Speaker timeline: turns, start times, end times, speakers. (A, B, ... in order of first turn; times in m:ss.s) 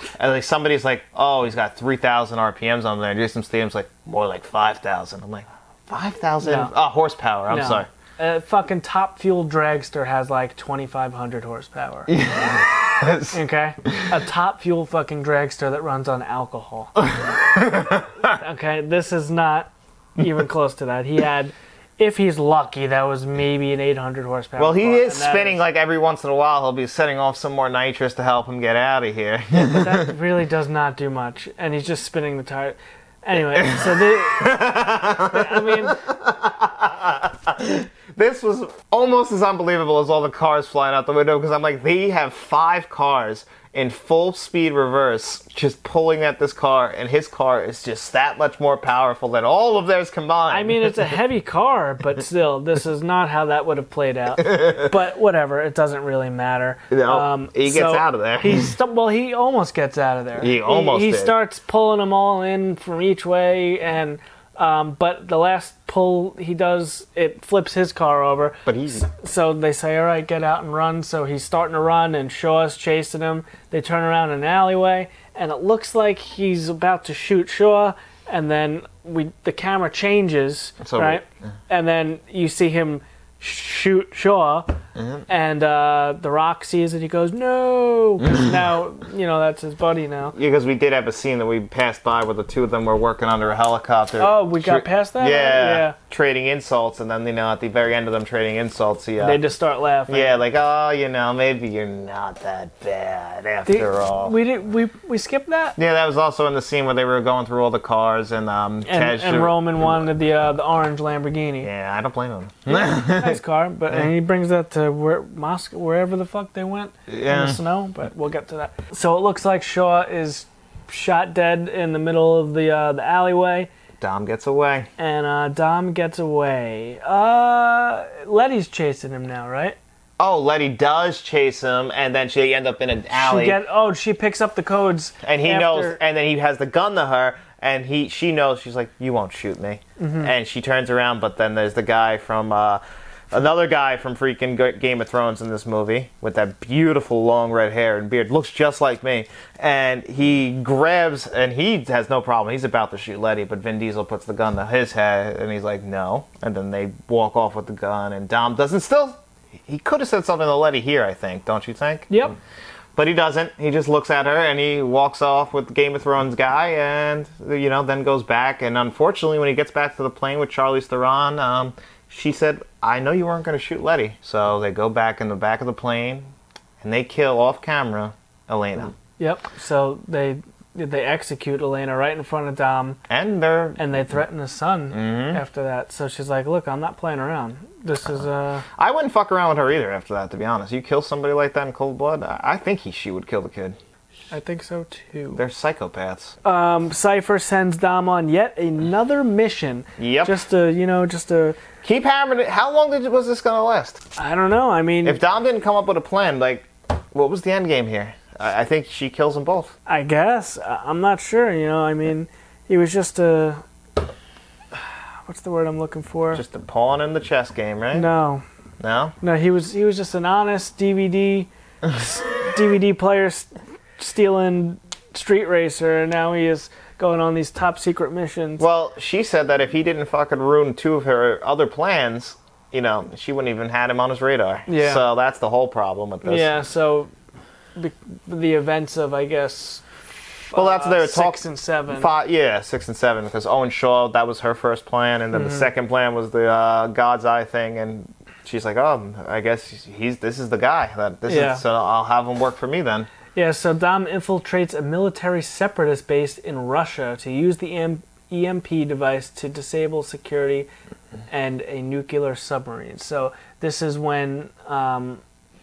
0:00.2-0:07.9 A
0:06.4-0:06.7 B
0:07.5-0:12.1 B
0:12.1-0:14.0 A
0:13.3-0:17.0 B
0:17.0-0:18.3 A
0:18.2-0:25.6 B
0:24.6-0:30.1 A
0:29.6-0:36.0 B
0:33.5-0:51.2 A
0:50.5-1:24.8 B
0:54.4-0:54.9 A
0:56.9-0:58.7 A
1:00.4-1:01.4 A
1:08.6-1:09.0 A
1:20.8-1:21.2 A
1:24.9-1:25.2 A
1:25.3-1:30.4 B
1:30.3-1:39.4 A
1:34.2-1:36.0 B
1:39.2-1:40.4 B
1:40.1-1:44.3 A
1:43.6-1:45.8 B
1:45.8-1:50.1 A
1:48.8-1:51.7 B
1:51.6-1:53.4 A
1:52.7-2:03.7 B
1:57.1-1:57.6 A
2:04.0-2:04.9 A
2:05.0-2:09.8 B
2:10.2-2:13.6 A
2:13.1-2:16.0 B
2:15.2-2:42.2 A
2:20.0-2:20.3 B
2:42.1-2:42.3 B
2:43.0-2:56.3 A
2:56.8-2:58.9 A
2:59.2-3:03.0 B
3:03.1-3:03.8 A
3:03.8-3:08.6 B
3:04.9-3:05.4 A
3:08.8-3:13.8 A
3:14.3-3:15.4 B
3:15.4-3:16.3 A
3:16.4-3:21.6 B
3:20.0-3:20.4 A
3:21.8-3:24.0 A
3:24.2-3:25.2 B
3:25.0-3:29.7 A
3:29.9-3:33.6 B
3:34.7-3:36.4 B
3:36.3-3:38.1 A
3:37.9-3:38.4 B
3:38.8-3:39.1 A
3:39.2-3:48.6 B
3:48.6-3:56.5 A
3:54.7-3:55.0 B
3:56.2-3:57.1 B
3:57.8-4:02.1 B
4:00.5-4:13.1 A
4:05.3-4:05.7 B
4:11.3-4:11.6 B
4:13.3-4:20.7 B
4:21.3-4:25.2 B